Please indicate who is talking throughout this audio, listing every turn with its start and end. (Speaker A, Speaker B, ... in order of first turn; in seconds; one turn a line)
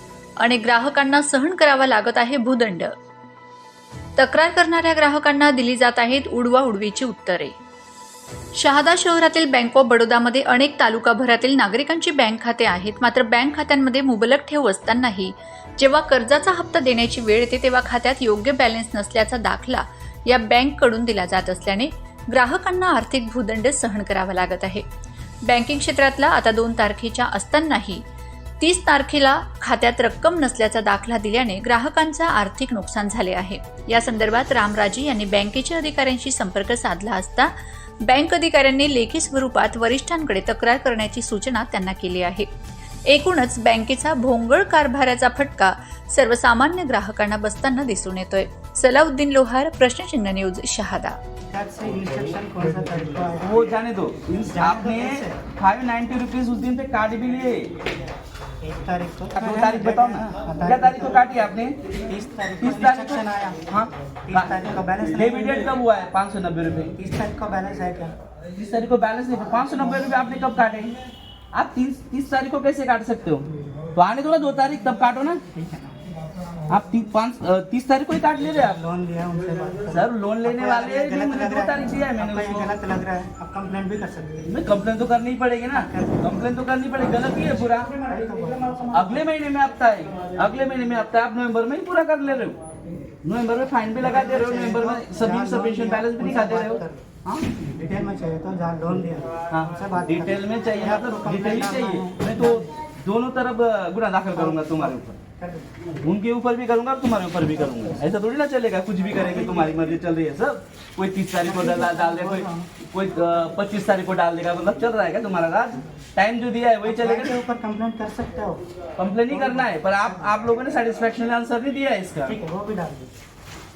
Speaker A: 0.4-2.9
Speaker A: 4.2-7.5
Speaker A: 8.6-24.8
Speaker A: 25.4-28.0
Speaker A: 28.6-37.5
Speaker A: 38.0-42.5
Speaker A: 43.1-51.2
Speaker B: 51.5-53.5
Speaker C: 53.4-57.7
Speaker B: 54.5-55.4
Speaker B: 58.6-61.3
Speaker C: 59.4-61.8
Speaker B: 62.1-63.6
Speaker C: 62.6-64.6
Speaker B: 64.3-65.7
Speaker C: 65.1-67.0
Speaker B: 67.0-68.1
Speaker C: 68.5-71.0
Speaker C: 71.5-75.4
Speaker B: 75.5-76.0
Speaker C: 76.7-78.8
Speaker B: 78.4-84.5
Speaker C: 79.9-82.7
Speaker C: 84.5-87.9
Speaker B: 85.7-86.3
Speaker B: 87.0-89.2
Speaker C: 88.9-92.6
Speaker C: 93.2-97.5
Speaker B: 94.0-97.0
Speaker B: 97.8-102.7
Speaker C: 99.5-105.2
Speaker B: 104.3-105.7
Speaker C: 106.0-117.4
Speaker B: 111.4-112.7
Speaker B: 116.8-118.6
Speaker C: 119.0-122.4
Speaker B: 122.2-123.1